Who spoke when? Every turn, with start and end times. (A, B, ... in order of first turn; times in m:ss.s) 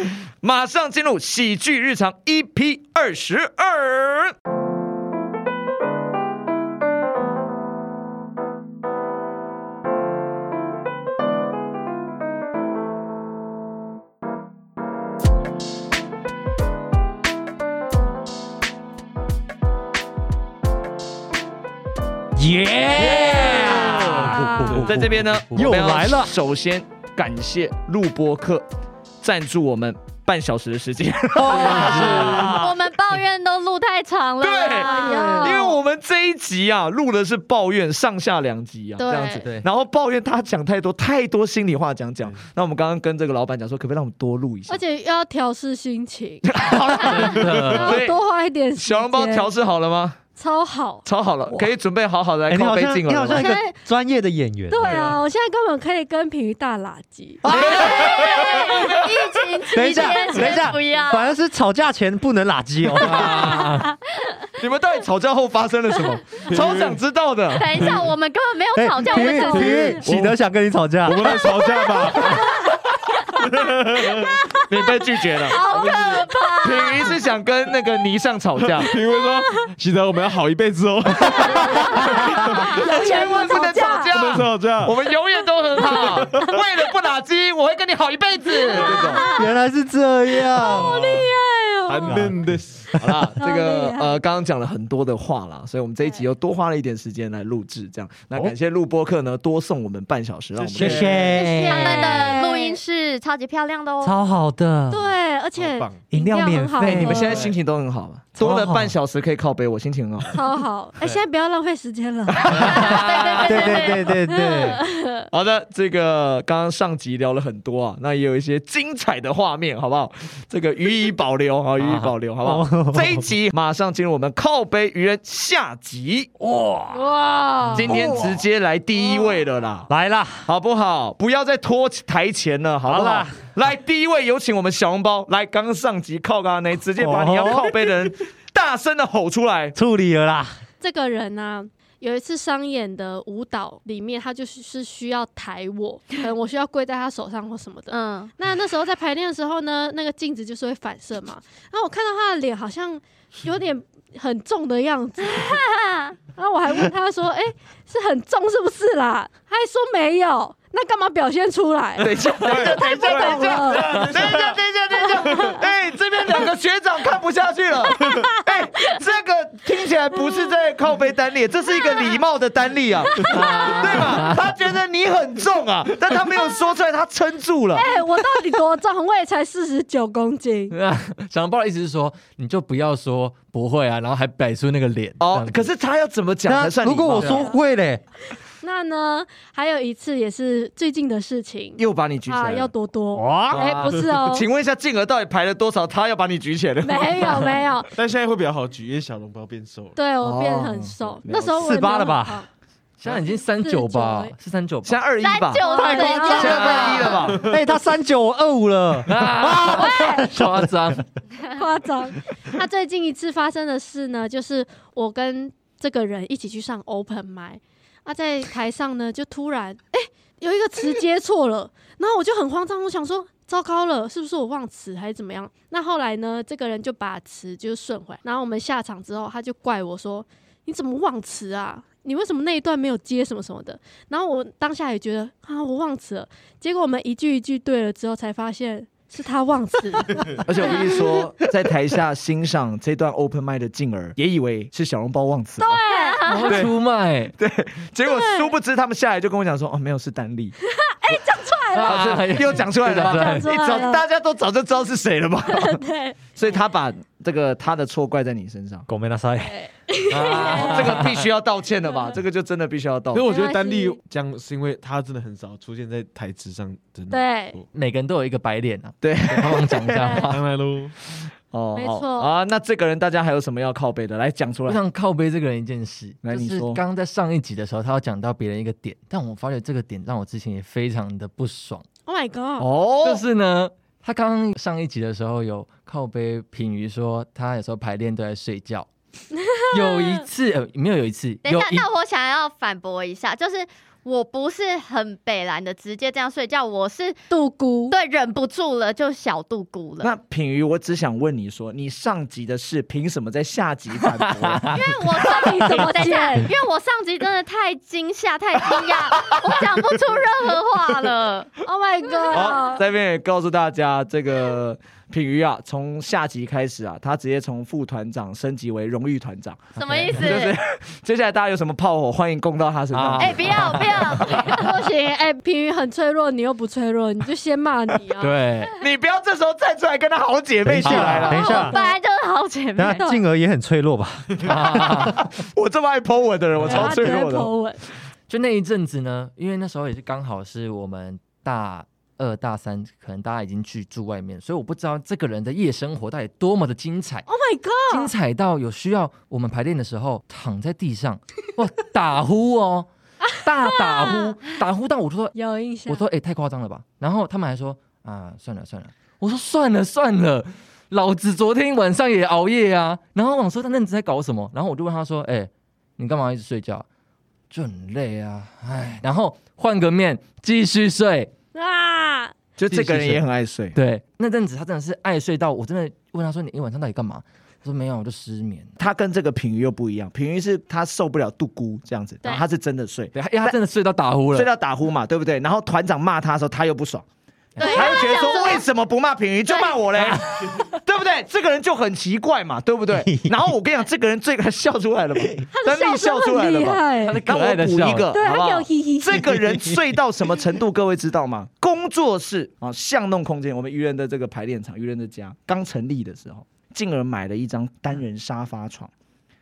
0:00.4-0:04.3 A
0:22.4-0:26.3 B
0:24.6-0:25.3 C
0:24.7-0:28.6 A
0:29.2-0:32.7 A
0:31.4-0:32.7 B
0:31.8-0:35.7 D
0:34.4-0:44.8 A
0:34.7-0:35.8 E
0:39.0-0:39.4 E
0:44.7-0:49.5 E
0:46.4-0:48.2 A
0:47.0-0:48.0 F
0:48.8-0:50.2 A
0:50.4-0:51.6 E
0:51.0-0:53.5 A
0:52.5-0:55.0 B
0:53.3-0:53.8 E
0:54.7-0:58.5 E
0:57.4-0:58.2 B
0:57.5-0:59.1 A
0:57.5-1:01.3 D
0:59.7-1:03.6 B
0:59.8-1:00.5 E
1:03.0-1:03.9 F
1:04.6-1:08.0 A
1:06.5-1:07.0 C
1:07.5-1:09.9 D
1:07.7-1:08.1 C
1:08.7-1:11.4 B
1:09.0-1:10.0 E
1:09.5-1:10.4 C
1:11.0-1:12.5 C
1:11.9-1:12.4 E
1:13.4-1:14.5 C
1:14.6-1:15.6 A
1:15.4-1:16.9 E
1:15.5-1:17.0 D
1:15.7-1:16.3 C
1:16.6-1:18.9 A
1:18.7-1:22.9 C
1:19.2-1:19.6 E
1:21.3-1:24.1 E
1:21.6-1:29.3 A
1:24.1-1:25.0 C
1:25.8-1:26.5 C
1:28.6-1:29.5 E
1:29.3-1:31.2 B
1:30.5-1:32.3 E
1:30.6-1:31.2 C
1:31.8-1:32.9 C
1:32.1-1:32.3 B
1:32.9-1:41.2 A
1:33.4-1:34.2 E
1:40.5-1:41.5 C
1:40.8-1:42.3 B
1:41.3-1:44.1 D
1:41.4-1:42.8 E
1:44.0-1:45.0 B
1:44.9-1:47.5 E
1:45.6-1:46.1 C
1:46.1-1:47.4 B
1:46.9-1:50.4 A
1:47.2-1:47.5 C
1:48.4-1:49.0 B
1:50.3-1:53.0 E
1:52.4-1:53.7 A
1:52.5-1:54.3 D
1:53.4-1:54.8 B
1:54.3-1:55.3 E
1:55.3-2:06.3 A
2:01.8-2:03.2 B
2:06.4-2:07.1 B
2:06.9-2:08.1 E
2:07.7-2:09.9 A
2:07.8-2:08.3 B
2:09.0-2:09.3 E
2:09.9-2:10.5 B
2:10.4-2:19.8 A
2:12.9-2:13.4 B
2:17.0-2:17.7 B
2:19.8-2:20.5 B
2:20.8-2:35.6 E
2:27.9-2:28.3 D
2:35.2-2:36.2 D
2:36.4-2:44.1 E
2:42.0-2:57.9 A
2:42.4-2:44.6 C
2:48.0-2:48.3 E
2:53.2-2:54.4 F
2:53.3-2:53.8 E
2:57.7-3:00.8 E
3:00.7-3:05.7 F
3:05.2-3:07.4 A
3:06.5-3:08.0 B
3:07.1-3:07.4 F
3:07.2-3:07.6 E
3:08.6-3:14.4 E
3:11.8-3:12.7 A
3:13.1-3:13.8 B
3:13.5-3:17.5 A
3:13.6-3:13.9 F
3:16.8-3:17.9 E
3:17.9-3:20.0 C
3:20.0-3:22.4 E
3:20.2-3:21.6 A
3:21.6-3:22.4 B
3:23.0-3:25.0 F
3:23.2-3:24.3 E
3:24.8-3:27.5 A
3:25.2-3:27.2 D
3:25.6-3:27.2 E
3:25.8-3:26.9 B
3:27.3-3:27.5 C
3:27.4-3:31.0 B
3:29.0-3:31.0 F
3:29.7-3:30.2 E
3:31.4-4:01.1 E
4:00.2-4:05.8 A
4:05.6-4:06.6 E
4:05.9-4:06.7 D
4:06.2-4:07.3 F
4:07.4-4:10.6 A
4:08.0-4:08.5 E
4:10.8-4:12.1 E
4:11.7-4:13.5 F
4:11.8-4:15.8 A
4:12.8-4:14.0 E
4:15.5-4:16.3 E
4:16.3-4:18.9 A
4:18.9-4:19.6 B
4:19.4-4:21.1 E
4:20.1-4:21.3 F
4:20.4-4:23.2 A
4:23.1-4:27.6 C
4:23.2-4:24.0 E
4:27.1-4:27.6 E
4:27.7-4:30.4 F
4:29.0-4:30.0 A
4:30.0-4:30.3 E
4:30.3-4:30.9 C
4:31.5-4:34.8 A
4:31.8-4:32.3 E
4:34.6-4:41.8 F
4:36.2-4:36.8 A
4:42.0-4:42.7 E
4:42.6-4:43.2 A
4:43.0-4:48.9 F
4:49.7-4:51.9 F
4:49.7-4:50.2 E
4:51.4-4:57.2 D
4:57.3-4:57.9 E
4:57.9-5:00.1 D
5:00.0-5:04.8 A
5:04.4-5:04.8 F
5:04.7-5:11.6 D
5:05.2-5:06.5 E
5:09.2-5:09.8 A
5:11.6-5:12.8 E
5:12.3-5:23.9 A
5:19.8-5:20.4 F
5:19.8-5:20.5 D
5:22.9-5:24.5 F
5:23.2-5:24.7 D
5:24.4-5:28.3 E
5:28.2-5:28.7 F
5:28.8-5:31.5 A
5:30.6-5:31.8 B
5:30.8-5:31.4 F
5:31.3-5:32.0 E
5:31.3-5:33.1 D
5:32.8-5:34.5 B
5:34.4-5:35.2 F
5:34.5-5:37.5 A
5:36.6-5:37.1 F
5:36.7-5:37.8 E
5:38.3-5:47.3 F
5:47.3-5:48.1 E
5:47.9-6:06.8 F
5:53.8-5:54.4 E
5:55.4-5:56.0 E
6:07.5-6:11.3 F
6:11.5-6:12.3 E
6:12.6-6:13.8 A
6:12.7-6:13.2 F
6:13.7-6:18.8 F
6:18.8-6:23.6 A
6:23.1-6:24.5 F
6:24.3-6:27.0 A
6:27.6-6:27.9 F
6:27.6-6:28.6 D
6:27.6-6:48.9 A
6:27.6-6:28.6 E
6:33.0-6:33.3 B
6:35.6-6:37.2 E
6:37.0-6:38.2 F
6:38.1-6:39.4 E